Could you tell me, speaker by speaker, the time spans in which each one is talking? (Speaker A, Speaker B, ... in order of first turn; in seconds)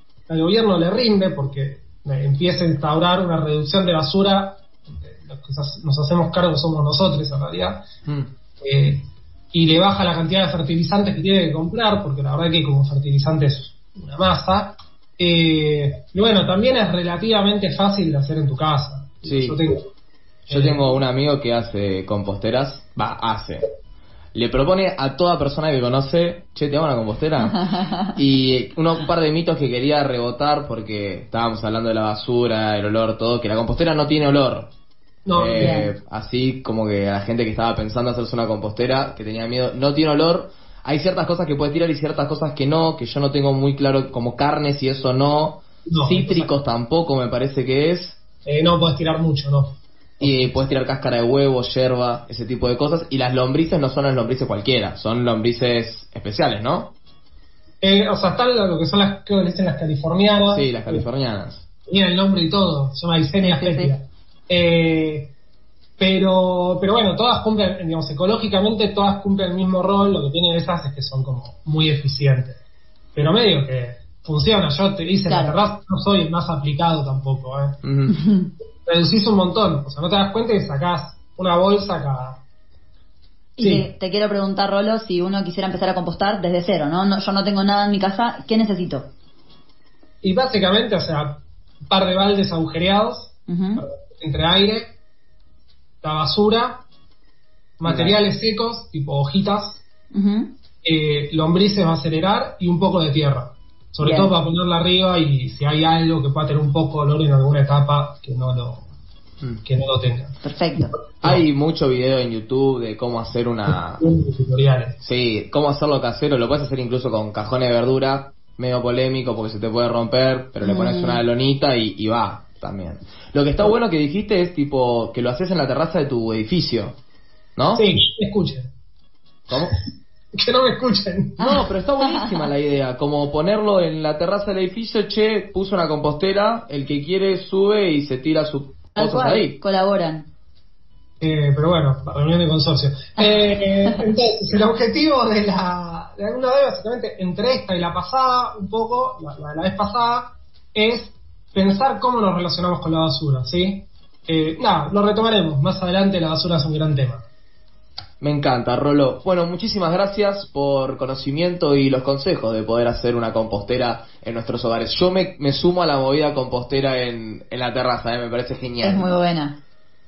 Speaker A: 0.3-7.8, 8.6-9.0, 9.5-19.8, 20.5-20.9, 35.2-35.8, 45.9-46.5, 48.4-49.7, 50.2-50.6, 57.8-61.0, 61.9-65.3, 66.0-72.5, 73.1-77.8, 78.8-82.4, 83.6-83.8, 90.2-91.3, 91.9-94.9, 96.0-96.8, 97.8-99.8, 100.8-108.8, 109.6-111.4, 113.7-114.9, 127.8-128.7, 130.4-131.6, 141.2-157.2
Speaker B: 19.2-19.6, 20.5-23.7, 24.3-34.7, 35.4-48.2, 50.2-56.9, 60.5-61.6, 77.8-78.1, 97.8-98.2, 111.2-114.0, 115.0-126.9, 127.5-127.8, 129.5-129.8, 131.4-139.5, 158.2-169.1
Speaker C: 27.4-28.1, 35.6-35.9, 63.4-63.9, 75.2-75.5, 78.1-78.5, 83.6-89.0, 93.5-93.8, 100.1-100.5, 104.0-104.3, 110.4-110.9, 120.6-121.2, 132.0-132.4, 138.9-140.2, 168.8-169.5